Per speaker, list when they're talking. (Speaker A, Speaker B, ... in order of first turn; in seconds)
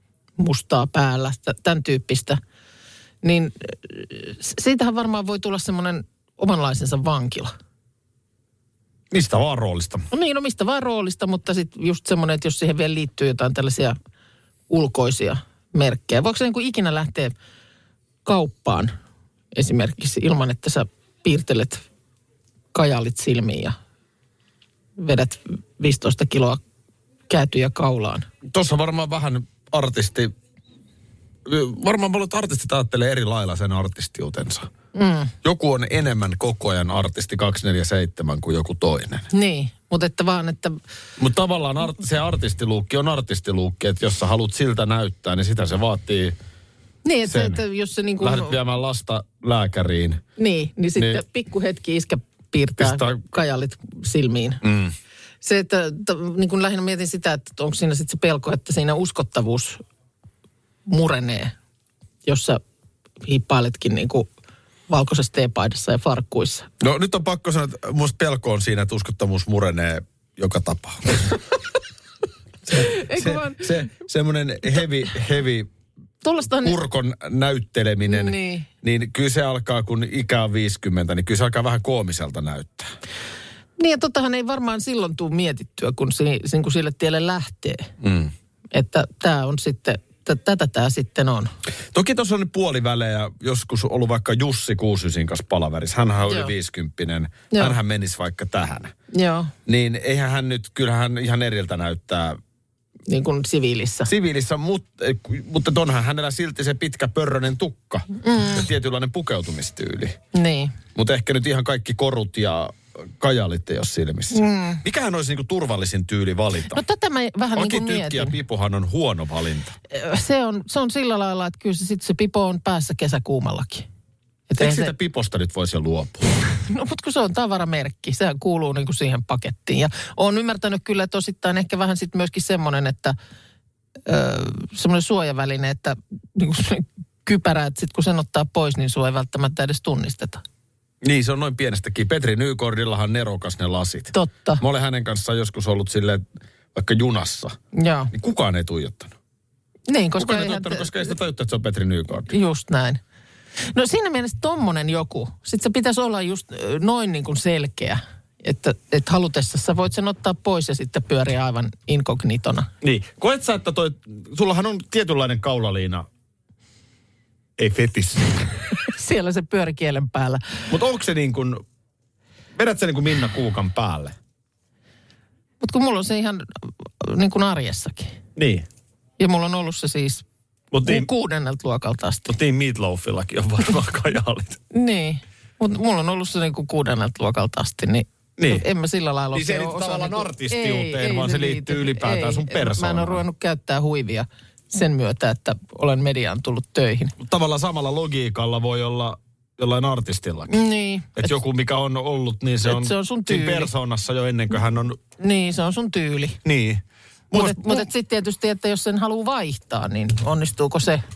Speaker A: 0.4-2.4, 3.2-7.5, 10.1-14.0, 14.7-17.3, 18.2-18.9, 19.5-21.8, 22.7-23.8, 25.0-26.6, 27.3-28.3, 35.0-35.3, 39.3-40.8, 47.0-48.6, 50.4-54.6, 55.4-59.8, 60.9-61.5, 62.2-62.6, 63.2-64.3, 64.9-66.7, 72.7-73.7, 76.2-76.8, 78.1-78.7, 83.8-87.9, 88.7-91.5, 96.2-96.5, 99.1-99.5, 103.1-104.1, 108.2-108.7, 110.3-110.8, 114.3-114.8, 116.7-118.4, 119.9-123.9, 124.5-124.9, 126.6-133.2, 134.1-140.4, 144.1-144.6, 147.8-148.1, 149.9-151.1, 152.3-153.0, 153.7-162.7, 168.8-170.7, 175.6-178.2, 179.2-180.2, 180.8-182.3, 184.7-197.2, 200.5-201.3, 202.6-203.7, 205.2-206.4, 207.3-211.0
Speaker B: 9.1-10.1, 28.4-30.3, 31.4-34.7, 35.4-39.3, 41.2-46.4, 47.3-47.6, 48.2-50.2, 51.0-51.2, 52.8-53.3, 54.6-55.0, 66.8-71.3, 72.7-75.7, 76.6-82.9, 88.0-88.3, 91.9-98.9, 99.7-102.4, 104.1-110.2, 111.0-116.8, 117.5-119.8, 124.6-126.3, 141.0-147.6, 148.1-149.1, 150.2-152.3, 162.8-166.1, 167.6-168.4, 170.7-171.6, 172.6-174.2, 178.4-178.7, 180.7-181.1, 182.3-184.6, 188.4-188.7, 189.3-193.2, 197.2-200.6, 201.2-205.0, 206.4-207.9